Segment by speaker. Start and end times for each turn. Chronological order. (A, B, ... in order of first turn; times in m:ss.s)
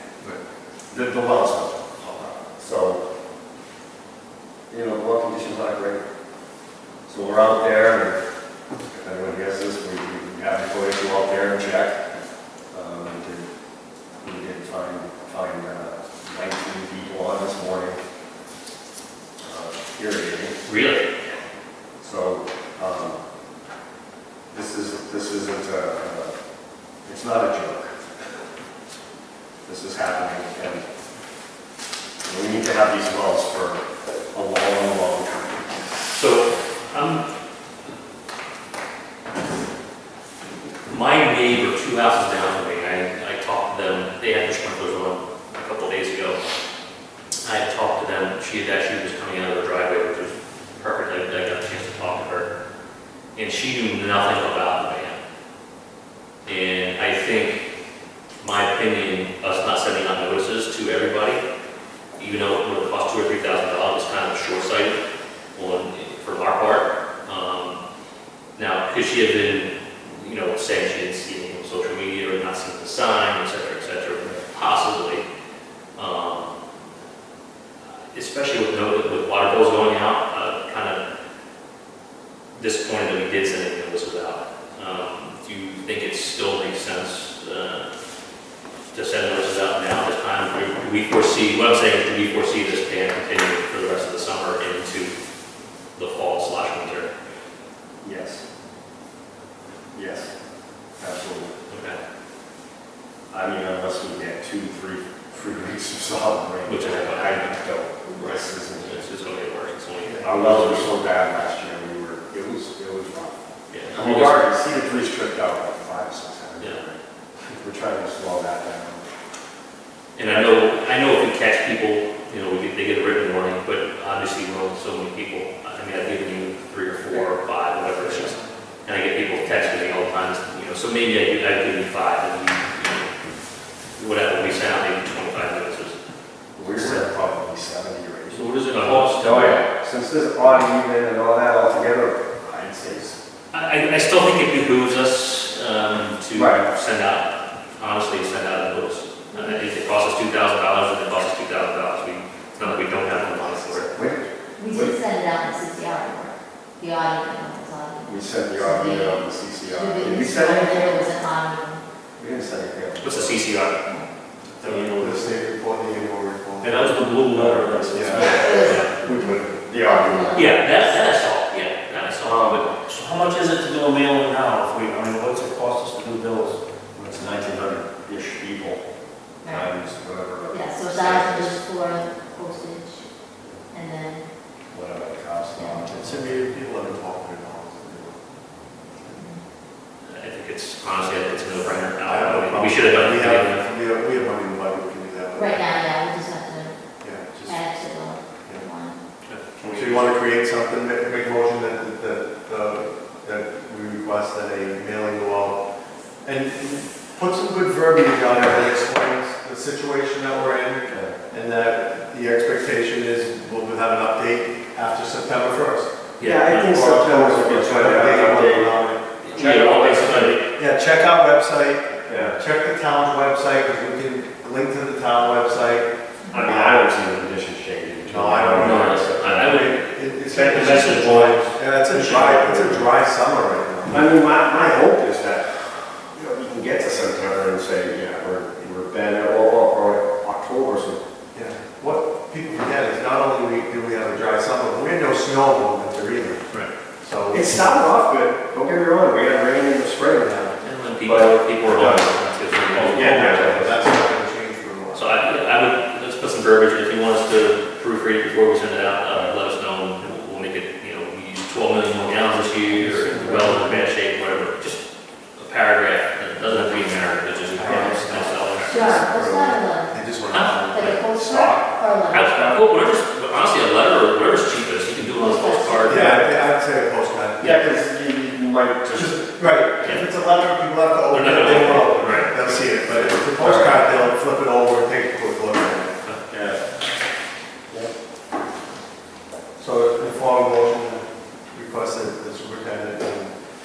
0:00.9-0:03.0 A
0:04.7-0:06.0 A
0:07.1-0:08.2 A
0:08.9-0:12.0 A
0:12.7-0:13.5 A
0:14.2-0:18.0 A
0:19.4-0:20.6 A
0:20.6-0:21.1 B
0:22.0-0:23.2 A
0:24.5-0:26.4 A
0:27.0-0:28.0 A
0:29.6-0:30.8 A
0:32.2-0:35.8 A
0:36.1-0:37.2 B
0:40.9-0:46.4 B
0:47.4-0:52.5 B
0:53.4-0:55.2 B
0:56.4-0:57.6 B
0:58.4-1:01.4 B
1:02.2-1:05.0 B
1:05.6-1:07.8 B
1:08.6-1:15.2 B
1:16.0-1:16.6 B
1:18.1-1:21.0 B
1:22.6-1:27.9 B
1:28.9-1:35.1 B
1:36.0-1:37.1 B
1:38.0-1:38.4 A
1:39.9-1:40.3 A
1:41.0-1:41.6 A
1:41.7-1:42.0 B
1:43.3-1:49.1 A
1:46.6-1:47.5 B
1:48.1-1:51.0 B
1:50.2-1:57.0 A
1:53.7-1:54.5 B
1:57.6-1:59.0 A
2:00.2-2:13.1 B
2:14.0-2:16.0 B
2:16.6-2:23.2 A
2:16.7-2:17.0 B
2:18.4-2:19.0 C
2:18.7-2:19.6 B
2:23.5-2:33.9 B
2:26.3-2:26.6 A
2:29.3-2:29.6 D
2:33.7-2:34.9 A
2:34.6-2:41.8 D
2:38.0-2:41.1 A
2:42.2-2:43.4 A
2:43.0-2:43.8 B
2:44.6-2:46.9 E
2:44.6-2:45.3 C
2:46.6-2:49.0 C
2:47.3-2:50.5 A
2:47.9-2:48.4 E
2:48.3-2:50.9 D
2:48.6-2:48.8 B
2:50.3-2:53.1 B
2:52.2-2:52.7 A
2:53.0-2:56.6 C
2:57.0-2:58.8 A
2:59.4-2:59.7 D
2:59.5-3:01.6 A
3:00.5-3:04.3 D
3:04.7-3:06.1 A
3:05.9-3:08.2 E
3:09.0-3:09.2 E
3:09.2-3:09.4 D
3:10.0-3:13.6 B
3:12.0-3:15.8 E
3:15.4-3:16.9 D
3:17.0-3:17.8 E
3:17.4-3:19.0 D
3:19.3-3:19.8 B
3:19.7-3:25.6 E
3:26.2-3:35.9 E
3:30.9-3:31.2 A
3:36.2-3:36.7 B
3:36.2-3:38.7 A
3:36.6-3:39.2 E
3:39.2-3:40.4 B
3:39.3-3:40.4 C
3:40.0-3:40.3 A
3:40.4-3:46.9 E
3:42.1-3:42.4 A
3:46.3-3:49.7 A
3:48.0-3:54.1 E
3:48.6-3:52.3 B
3:50.6-3:51.0 A
3:52.0-3:52.9 A
3:53.9-4:01.0 A
4:01.3-4:06.5 E
4:07.0-4:07.8 E
4:07.3-4:10.4 A
4:10.2-4:10.6 E
4:10.6-4:13.6 B
4:11.0-4:14.0 A
4:12.7-4:15.4 E
4:14.9-4:24.8 B
4:19.1-4:19.4 A
4:22.8-4:23.8 A
4:25.4-4:29.0 B
4:26.5-4:31.9 E
4:28.7-4:30.0 D
4:30.3-4:31.0 B
4:30.7-4:32.6 D
4:32.1-4:36.0 B
4:35.2-4:36.2 D
4:35.8-4:37.6 E
4:37.4-4:39.3 A
4:38.9-4:46.0 E
4:39.8-4:40.1 B
4:41.1-4:42.4 B
4:42.4-4:43.9 A
4:46.3-4:46.6 A
4:49.6-4:53.4 E